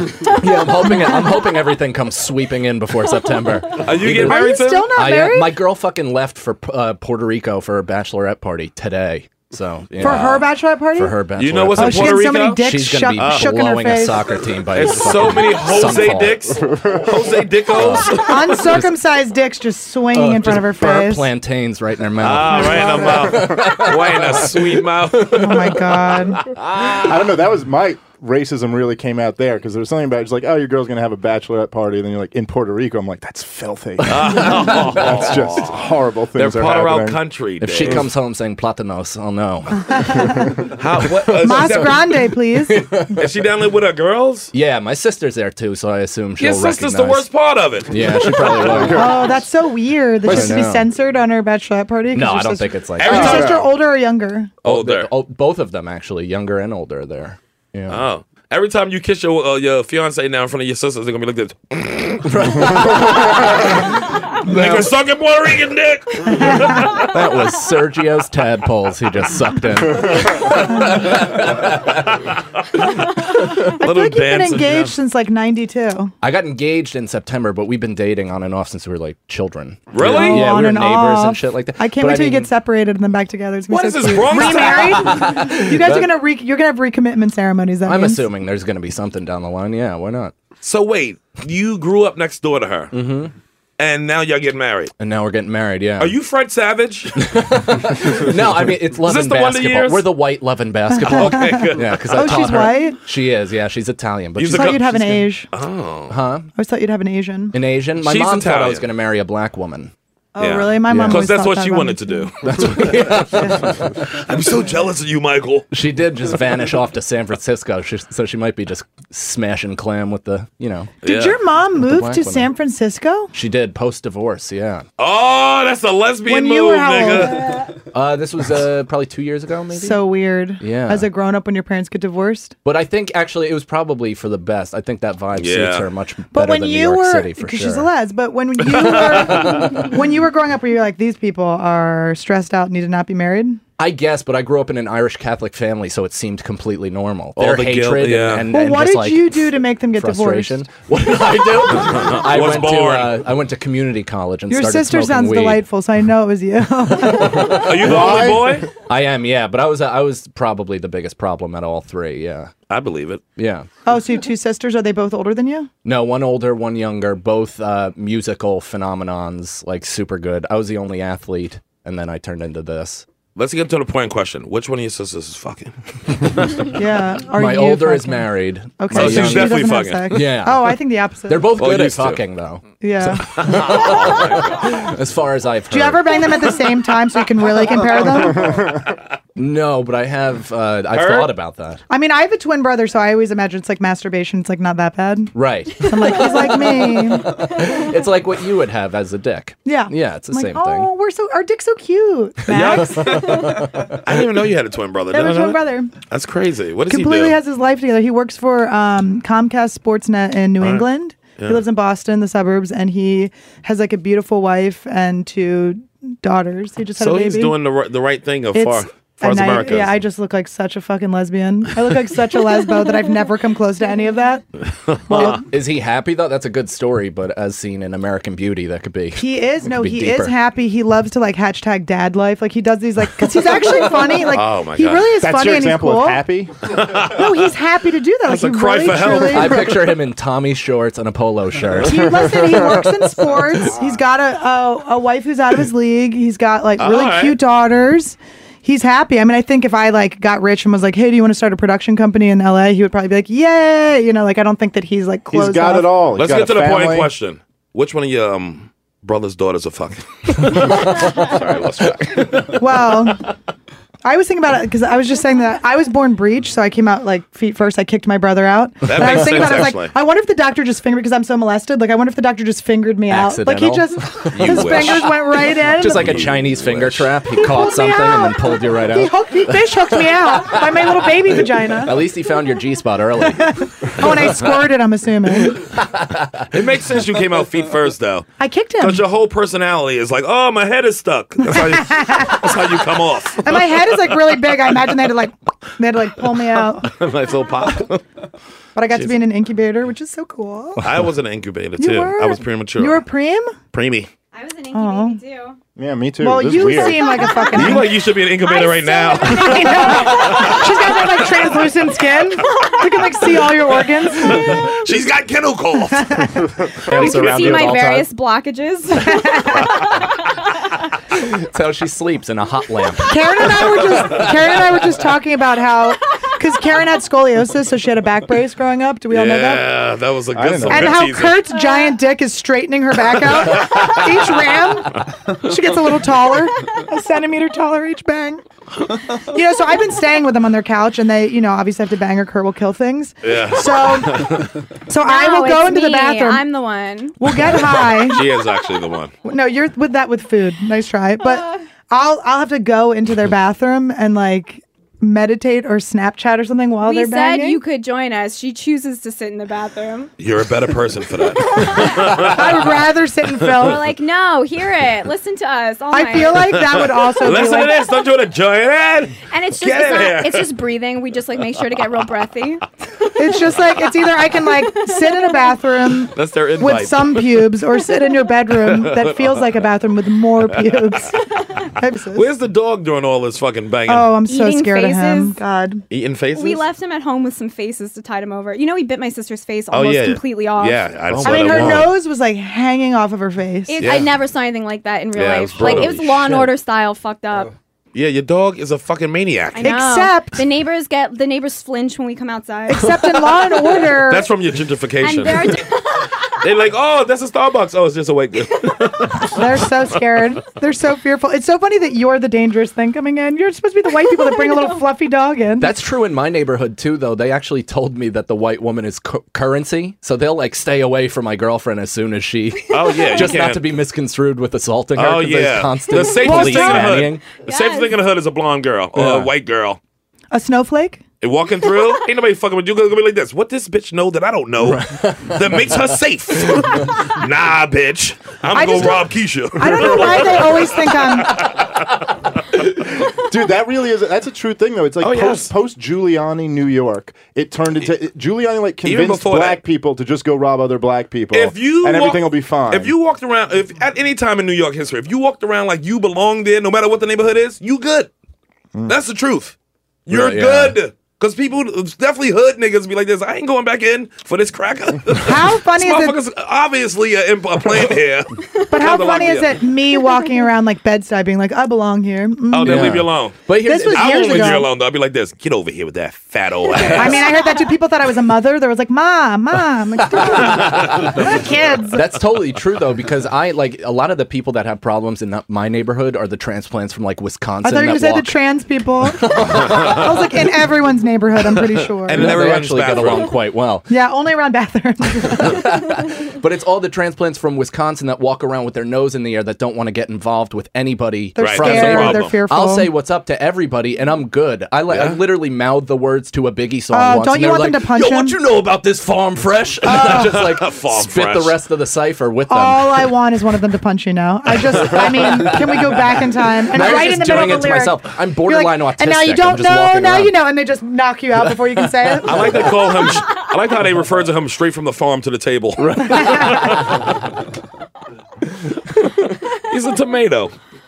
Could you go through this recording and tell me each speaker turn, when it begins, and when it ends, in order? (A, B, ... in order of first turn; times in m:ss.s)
0:00.2-0:00.8 A
0:00.4-0:16.6 B
0:03.7-0:04.9 C
0:04.2-0:05.6 D
0:10.0-0:11.2 D
0:11.4-0:12.6 C
0:11.8-0:14.4 D
0:13.1-0:13.5 C
0:14.7-0:18.5 C
0:16.5-0:17.4 E
0:17.7-0:18.9 B
0:18.2-0:21.3 D
0:20.1-0:25.4 B
0:22.2-0:27.2 C
0:22.5-0:23.4 D
0:23.3-0:23.7 E
0:25.3-0:26.5 D
0:26.9-0:37.2 E
0:34.1-0:35.7 C
0:34.1-0:35.1 B
0:36.3-0:38.0 C
0:37.6-0:40.3 B
0:39.9-0:40.7 D
0:40.8-0:42.1 C
0:41.4-0:43.0 D
0:42.6-0:43.2 B
0:43.2-0:44.5 C
0:44.5-0:47.3 B
0:46.4-0:48.9 C
0:47.9-0:49.2 B
0:48.6-0:49.4 E
0:48.9-0:54.5 D
0:50.2-0:50.9 B
0:50.3-0:50.5 E
0:52.1-0:53.5 B
0:53.0-0:53.6 C
0:53.0-0:53.6 E
0:54.6-0:55.1 C
0:54.6-0:58.0 B
0:57.9-1:07.1 C
1:02.2-1:03.4 B
1:04.4-1:04.9 B
1:07.0-1:12.1 B
1:12.1-1:13.0 C
1:13.7-1:14.9 C
1:13.8-1:16.1 D
1:16.2-1:22.5 B
1:19.9-1:20.5 C
1:20.0-1:28.2 D
1:23.7-1:25.2 C
1:24.3-1:26.1 B
1:27.8-1:30.3 B
1:30.6-1:32.9 C
1:32.9-1:33.3 B
1:33.8-1:34.9 C
1:35.0-1:36.2 B
1:36.0-1:37.2 C
1:37.2-1:45.3 B
1:39.0-1:40.1 C
1:40.9-1:43.0 D
1:41.1-1:42.6 C
1:44.4-1:46.1 C
1:44.5-1:45.5 D
1:46.1-1:46.5 B
1:46.6-1:47.6 D
1:47.5-1:49.9 B
1:48.0-1:48.9 C
1:50.3-1:52.3 D
1:50.4-1:55.7 C
1:50.9-1:51.3 B
1:52.4-1:53.8 B
1:53.4-1:53.7 D
1:55.7-2:00.9 B
2:01.0-2:01.4 C
2:01.0-2:03.3 D
2:01.7-2:02.5 B
2:03.3-2:04.8 B
2:05.0-2:07.5 C
2:06.3-2:07.6 D
2:07.9-2:10.0 B
2:09.7-2:12.6 D
2:10.6-2:11.1 B
2:12.6-2:17.9 B
2:15.3-2:15.9 C
2:16.3-2:23.6 D
2:18.8-2:19.3 C
2:19.1-2:19.8 B
2:23.8-2:35.6 B
2:27.4-2:28.5 C
2:28.5-2:30.6 D
2:31.9-2:33.2 C
2:34.5-2:37.8 D
2:37.5-2:38.7 C
2:37.8-2:38.7 E
2:38.9-2:42.5 B
2:42.7-2:43.2 C
2:43.4-2:43.7 B
2:43.8-2:45.7 D
2:45.8-2:53.0 B
2:53.4-2:56.7 C
2:56.7-3:01.6 D
2:57.3-3:02.6 B
2:58.9-3:00.2 C
3:01.6-3:02.2 C
3:02.8-3:03.9 D
3:03.3-3:06.4 B
3:03.4-3:04.7 C
3:05.7-3:08.6 D
3:08.4-3:08.9 E
3:09.4-3:11.8 B
3:10.9-3:11.3 C
3:11.9-3:17.4 D
3:15.3-3:16.3 B
3:16.0-3:17.0 A
3:17.2-3:20.9 B
3:19.6-3:23.7 D
3:22.5-3:23.5 C
3:24.0-3:27.4 C
3:25.1-3:25.9 D
3:26.9-3:37.5 D
3:30.6-3:30.8 C
3:37.0-3:40.0 C
3:38.5-3:44.4 D
3:44.9-3:45.3 C
3:45.1-3:45.5 D
3:45.1-3:50.3 B
3:49.2-3:56.2 D
3:54.3-3:55.1 C
3:55.2-3:56.5 E
3:56.7-3:57.5 C
3:57.1-3:59.7 D
3:58.2-3:59.9 C
3:59.2-4:02.3 B
4:01.8-4:15.9 D
4:01.9-4:02.9 E
4:06.8-4:07.4 C
4:15.3-4:17.1 E
4:16.2-4:22.6 C
4:22.5-4:23.2 D
4:24.0-4:36.3 D
4:28.8-4:29.9 C
4:28.9-4:29.5 B
4:33.1-4:44.6 B
4:34.3-4:35.2 C
4:35.8-4:37.1 C
4:37.3-4:42.1 D
4:43.3-4:45.7 D
4:45.6-4:46.5 B
4:46.5-4:48.3 C
4:48.4-4:49.0 D
4:48.8-4:54.3 C
4:51.4-4:52.6 D
4:53.4-4:56.9 D
4:56.8-4:58.0 C
4:58.7-5:00.8 D
4:58.9-4:59.2 C
5:00.8-5:03.0 C
5:01.8-5:03.5 D
5:03.7-5:04.1 C
5:04.3-5:05.6 A
5:04.7-5:05.2 D
5:05.8-5:07.0 E
5:06.2-5:07.9 D
5:06.6-5:10.8 A
5:07.5-5:11.5 C
5:09.2-5:14.8 D
5:14.2-5:16.2 C
5:15.9-5:16.5 D
5:16.9-5:18.1 B
5:16.9-5:20.1 A
5:19.0-5:19.8 D
5:21.2-5:24.2 B
5:23.1-5:29.6 D
5:29.1-5:31.4 C
5:30.3-5:31.0 E
5:30.7-5:38.4 D
5:31.5-5:32.0 A
5:33.6-5:34.0 C
5:39.1-5:46.5 D
5:43.2-5:44.5 C
5:45.0-5:47.2 A
5:47.2-5:48.2 D
5:48.0-5:49.1 C
5:49.2-5:57.6 D
5:51.3-5:51.6 A
5:56.8-6:00.1 A
6:00.2-6:02.7 C
6:01.3-6:02.2 A
6:02.2-6:03.9 D
6:03.6-6:06.5 A
6:05.9-6:07.8 D
6:06.5-6:10.5 C
6:09.3-6:12.6 A
6:13.2-6:21.2 D
6:14.7-6:15.5 A
6:16.1-6:17.5 C
6:18.5-6:19.6 C
6:20.5-6:20.9 C
6:21.7-6:22.3 D
6:22.1-6:24.1 C
6:23.9-6:25.8 D
6:24.2-6:25.4 A
6:25.9-6:26.6 C
6:26.3-6:31.0 A
6:29.7-6:31.9 C
6:31.2-6:31.8 B
6:31.2-6:33.8 D
6:33.7-6:37.5 A
6:33.8-6:34.1 C
6:35.1-6:36.5 C
6:35.6-6:36.4 B
6:37.9-6:39.7 C
6:39.5-6:43.3 A
6:39.6-6:40.5 D
6:42.7-6:44.3 D
6:44.0-6:45.6 C
6:45.0-6:46.4 A
6:46.4-6:49.4 C
6:49.3-6:55.7 D
6:54.3-6:54.8 A
6:55.6-7:07.3 B
7:02.7-7:03.6 C
7:02.8-7:03.3 A
7:05.0-7:09.8 C
7:05.9-7:07.9 A
7:06.2-7:06.8 D
7:09.0-7:09.2 B
7:10.3-7:11.0 D
7:11.2-7:21.8 C
7:14.8-7:15.2 B
7:18.5-7:21.5 D
7:23.0-7:32.9 E
7:25.0-7:25.5 C
7:28.8-7:29.6 C
7:31.3-7:38.1 C
7:38.9-7:39.5 C
7:40.1-7:49.6 C
7:40.1-7:40.8 B
7:45.2-7:46.2 D
7:48.7-7:53.0 D
7:52.5-7:57.3 C
7:52.6-7:54.4 B
7:53.6-7:54.7 D
7:56.9-8:02.2 D
7:57.2-7:57.6 A
8:00.1-8:08.3 B
8:07.6-8:12.4 D
8:09.2-8:10.0 B
8:12.0-8:13.3 C
8:12.1-8:13.9 B
8:13.9-8:15.8 D
8:15.3-8:33.1 B
8:21.4-8:22.9 D
8:21.4-8:22.3 C
8:24.9-8:25.2 C
8:26.9-8:28.4 D
8:28.1-8:29.1 C
8:29.8-8:31.6 C
8:29.8-8:30.6 D
8:32.5-8:43.2 D
8:34.6-8:40.3 B
8:41.8-8:42.7 B
8:42.2-8:47.2 C
8:45.8-8:47.1 B
8:46.1-8:46.8 D
8:49.5-8:50.5 C